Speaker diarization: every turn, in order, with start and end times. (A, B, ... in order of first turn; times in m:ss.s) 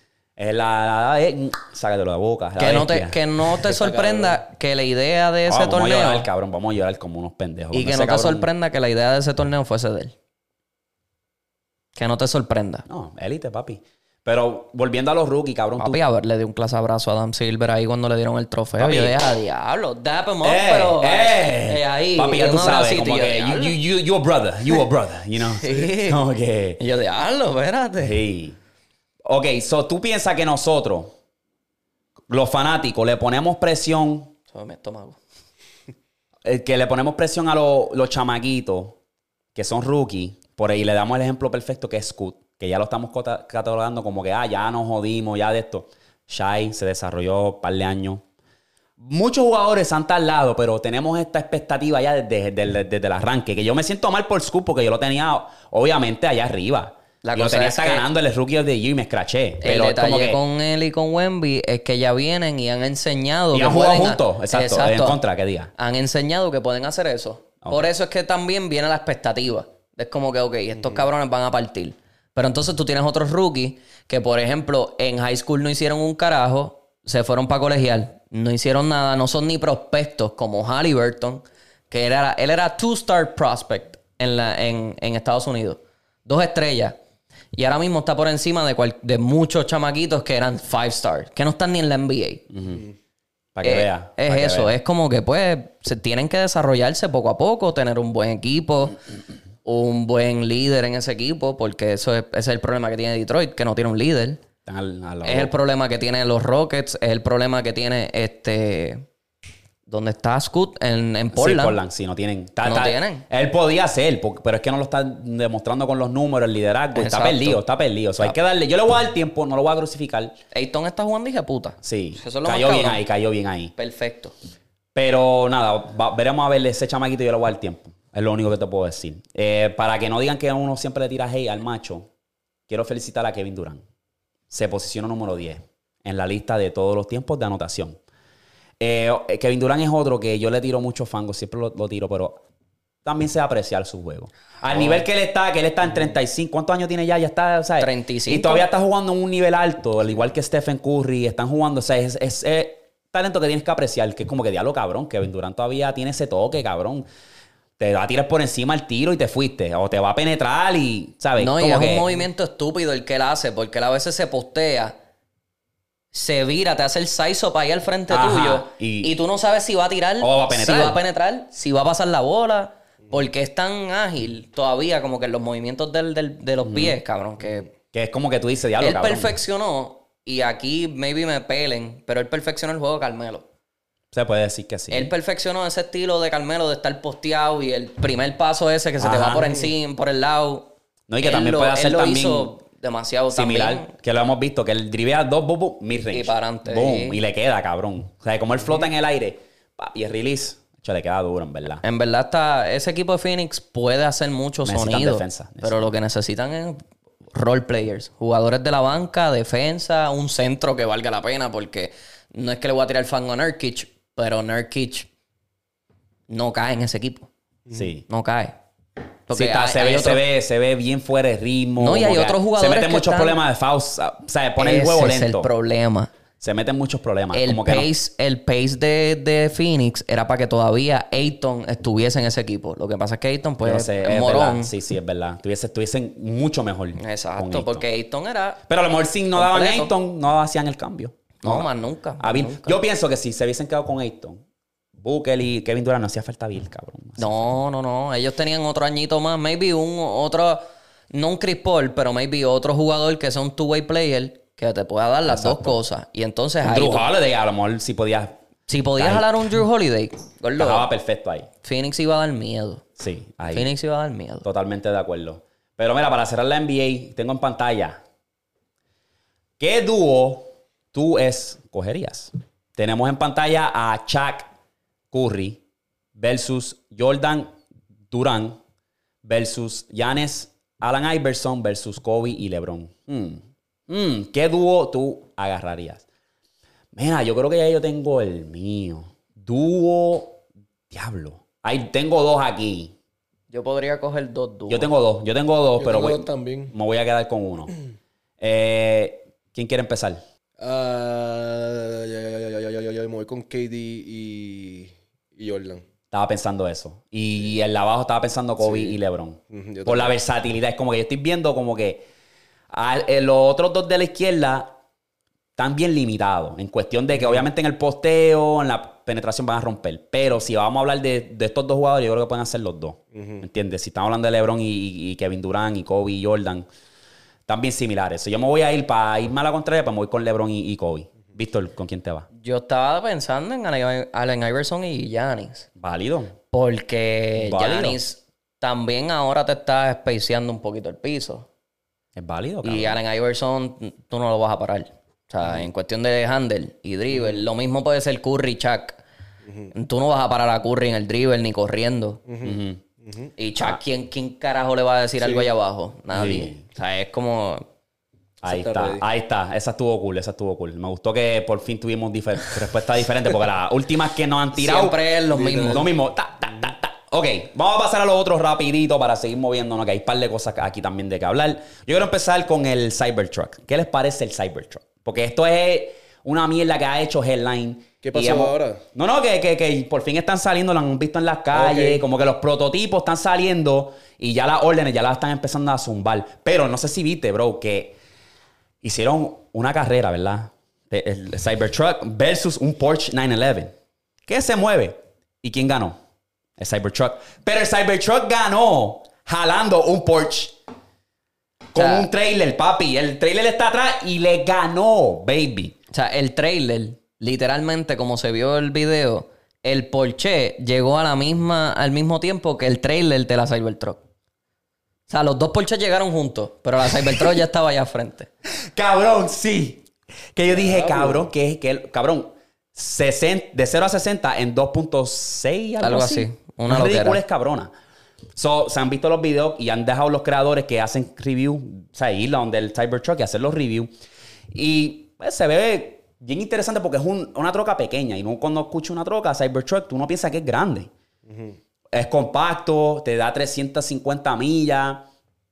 0:00.4-0:03.2 A
0:02.6-0:06.3 B
0:03.7-0:04.4 C
0:05.4-0:08.5 A
0:07.7-0:10.1 B
0:12.0-0:12.8 B
0:12.9-0:16.0 A
0:15.8-0:23.8 B
0:18.8-0:19.2 A
0:20.4-0:26.8 A
0:25.4-0:26.2 B
0:26.8-0:28.2 B
0:28.0-0:28.6 A
0:29.3-0:31.1 A
0:32.3-0:34.3 A
0:34.5-0:35.2 B
0:36.4-0:39.0 A
0:39.6-0:48.2 A
0:49.0-1:00.4 A
0:57.2-0:58.1 B
0:59.6-1:05.2 B
1:03.5-1:05.7 A
1:05.8-1:27.0 B
1:27.5-1:32.4 B
1:32.5-1:32.9 A
1:33.6-1:34.7 A
1:33.6-1:39.0 B
1:39.6-1:44.4 B
1:44.6-1:45.5 A
1:45.2-1:49.1 B
1:49.9-1:51.8 B
1:51.3-2:00.4 A
1:52.6-1:53.2 B
1:57.0-1:57.6 B
2:00.5-2:03.0 B
2:01.8-2:03.7 A
2:03.8-2:04.3 B
2:05.0-2:12.1 A
2:12.7-2:13.8 A
2:14.5-2:18.0 A
2:18.8-2:22.4 A
2:23.0-2:37.1 A
2:24.7-2:25.0 B
2:27.8-2:28.6 B
2:37.8-2:42.1 A
2:41.4-2:45.0 B
2:46.1-2:57.7 B
2:48.1-2:49.1 A
2:50.2-2:51.0 A
2:56.6-2:57.0 A
2:57.9-2:59.4 A
2:58.8-3:03.4 B
3:04.1-3:05.1 A
3:04.9-3:13.9 B
3:09.0-3:09.6 A
3:11.1-3:12.5 A
3:13.3-3:21.8 A
3:16.1-3:17.2 B
3:21.8-3:26.8 B
3:24.6-3:25.8 A
3:27.3-3:35.1 B
3:36.3-3:37.3 B
3:37.7-3:38.0 A
3:38.1-3:38.6 B
3:39.3-3:40.2 B
3:39.3-3:45.5 A
3:41.8-3:43.4 B
3:44.6-3:46.1 B
3:46.4-3:47.9 A
3:47.3-3:54.7 B
3:53.6-3:57.9 A
3:57.0-3:58.6 B
3:58.7-4:04.4 A
3:59.4-3:59.9 B
4:01.4-4:02.8 B
4:05.0-4:07.5 A
4:07.2-4:17.1 B
4:15.3-4:15.8 A
4:16.6-4:18.3 A
4:18.7-4:20.9 B
4:19.0-4:19.6 A
4:20.6-4:21.5 A
4:21.6-4:22.8 B
4:23.0-4:23.7 A
4:23.5-4:24.4 B
4:24.4-4:28.0 A
4:29.6-4:34.5 A
4:35.1-4:35.6 A
4:36.2-4:37.5 A
4:38.1-4:38.6 A
4:39.2-4:46.0 A
4:46.9-4:52.9 A
4:53.5-4:54.9 B
4:54.7-4:57.7 A
4:55.8-4:56.7 C
4:58.4-5:00.2 A
5:00.6-5:05.8 C
5:06.1-5:12.1 A
5:08.6-5:09.0 C
5:09.5-5:10.2 C
5:12.7-5:14.7 A
5:15.6-5:26.7 A
5:23.1-5:23.4 C
5:27.5-5:32.3 A
5:32.4-5:35.7 B
5:35.8-5:36.4 A
5:36.5-5:41.5 B
5:37.4-5:38.0 A
5:42.2-5:43.0 A
5:42.6-5:49.0 B
5:49.7-5:52.2 B
5:52.3-5:53.3 C
5:52.4-5:52.8 A
5:53.4-5:57.6 B
5:55.2-5:55.5 C
5:56.1-5:56.6 A
5:58.4-6:28.0 A
5:58.4-5:59.0 C
6:04.6-6:05.9 B
6:05.3-6:05.8 C
6:18.0-6:18.8 C
6:21.5-6:22.0 C
6:28.8-6:33.7 A
6:34.3-6:36.0 A
6:36.6-6:40.6 A
6:41.7-6:45.8 A
6:41.8-6:42.1 B
6:45.9-6:54.0 B
6:55.1-6:58.3 B
6:58.7-7:07.7 A
7:00.5-7:01.3 C
7:05.8-7:07.2 B
7:08.4-7:13.9 A
7:14.5-7:20.9 A
7:21.3-7:21.6 C
7:21.9-7:25.0 A